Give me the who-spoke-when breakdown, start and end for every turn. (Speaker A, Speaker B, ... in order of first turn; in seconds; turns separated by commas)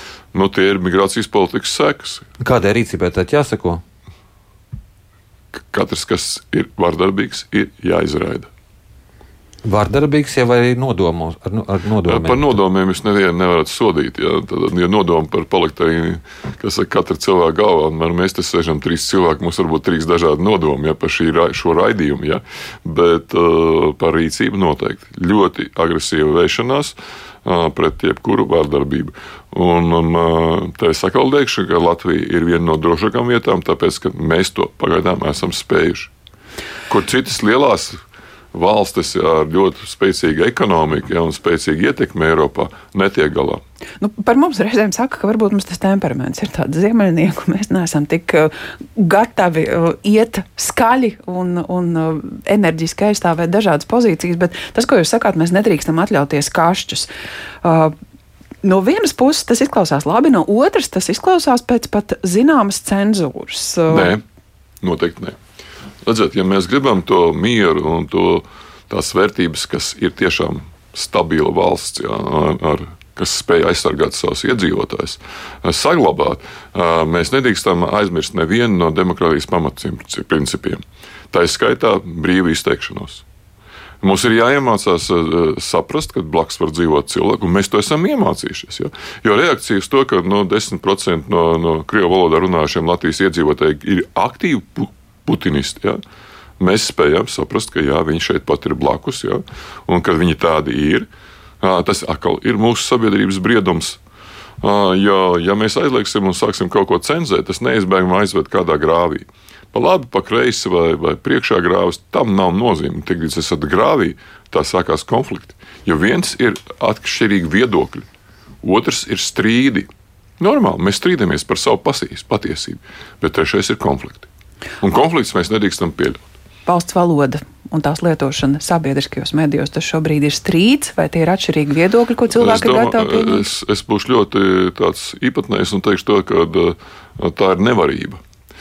Speaker A: 0.3-2.2, Speaker B: 2.4-3.8, Speaker A: 5.7-8.5, Speaker B: 9.6-12.6, Speaker A: 12.0-36.1, Speaker A: 36.9-38.0, Speaker A: 38.5-43.6, Speaker C: 44.0-57.1, Speaker C: 57.6-57.9, Speaker C: 58.6-64.1, Speaker A: 63.9-64.2, Speaker A: 64.8-65.4, Speaker A: 66.0-80.8, Speaker A: 81.3-83.2, Speaker A: 84.0-96.0, Speaker A: 96.6-101.1, Speaker A: 101.6-104.0, Speaker A: 104.6-118.1, Speaker A: 118.6-119.9, Speaker A: 120.4-124.3, Speaker A: 124.8-126.3, Speaker C: 126.7-133.5, Speaker A: 132.3-138.2